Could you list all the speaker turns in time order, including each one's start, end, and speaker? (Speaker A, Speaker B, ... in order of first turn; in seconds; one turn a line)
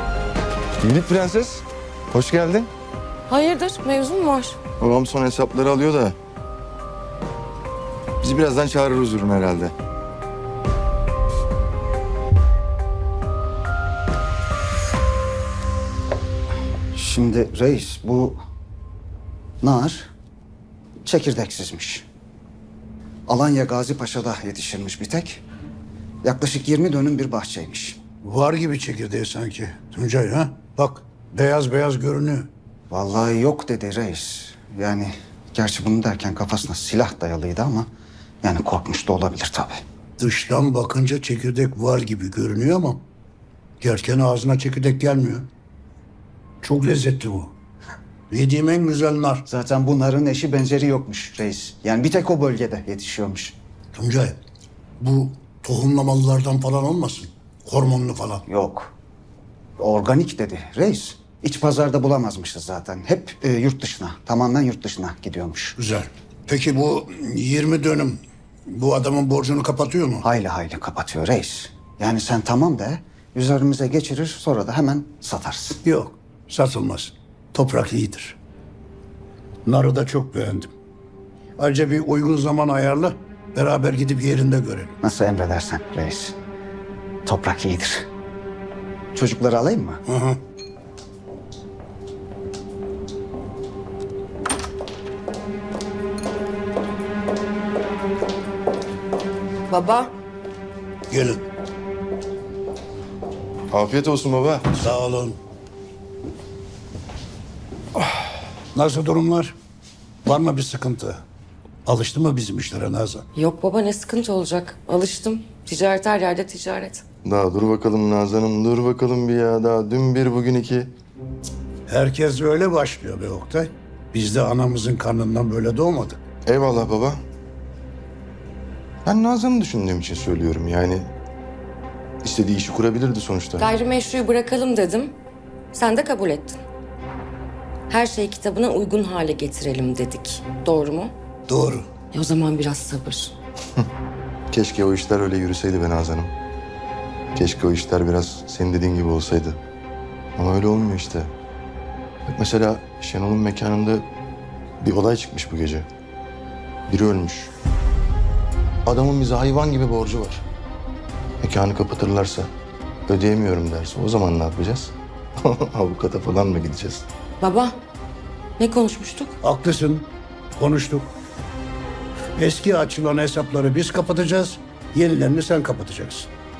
Speaker A: 0.8-2.7
Speaker B: 3.3-4.6
Speaker A: 4.8-6.2
Speaker A: 8.2-9.7
Speaker C: 16.9-18.4
Speaker C: 19.6-20.1
Speaker C: 21.0-22.0
Speaker C: 23.3-25.4
Speaker C: 26.2-28.0
Speaker D: 28.2-32.5
Speaker C: 32.9-37.9
Speaker C: 38.4-39.8
Speaker D: 40.2-43.0
Speaker D: 43.8-45.5
Speaker D: 46.6-47.5
Speaker D: 48.3-49.5
Speaker C: 49.5-53.5
Speaker D: 53.9-54.4
Speaker D: 55.0-58.4
Speaker C: 58.5-58.9
Speaker C: 59.8-65.8
Speaker D: 65.8-70.2
Speaker C: 70.2-75.8
Speaker D: 75.8-78.4
Speaker D: 79.6-80.7
Speaker D: 81.6-84.9
Speaker C: 85.0-86.3
Speaker C: 87.2-88.0
Speaker C: 89.1-90.0
Speaker D: 90.1-90.4
Speaker B: 99.7-100.1
Speaker D: 101.1-101.4
Speaker A: 103.7-104.8
Speaker D: 104.8-105.4
Speaker D: 108.7-109.5
Speaker D: 110.2-111.2
Speaker D: 111.8-113.2
Speaker B: 113.3-117.0
Speaker A: 117.2-120.9
Speaker D: 121.9-126.2
Speaker A: 126.4-127.2
Speaker A: 129.0-131.1
Speaker A: 132.2-133.7
Speaker B: 133.6-135.2
Speaker B: 135.7-136.6
Speaker B: 137.9-141.1
Speaker D: 141.5-141.9
Speaker B: 142.1-143.3
Speaker A: 144.5-146.3
Speaker A: 147.3-149.6
Speaker A: 150.4-151.3
Speaker A: 152.3-154.1
Speaker A: 154.8-155.9
Speaker A: 156.9-157.5
Speaker A: 158.8-160.4
Speaker A: 161.4-162.5
Speaker A: 163.1-167.0
Speaker B: 167.4-167.7
Speaker B: 168.6-169.3
Speaker D: 169.4-171.1
Speaker D: 172.4-176.3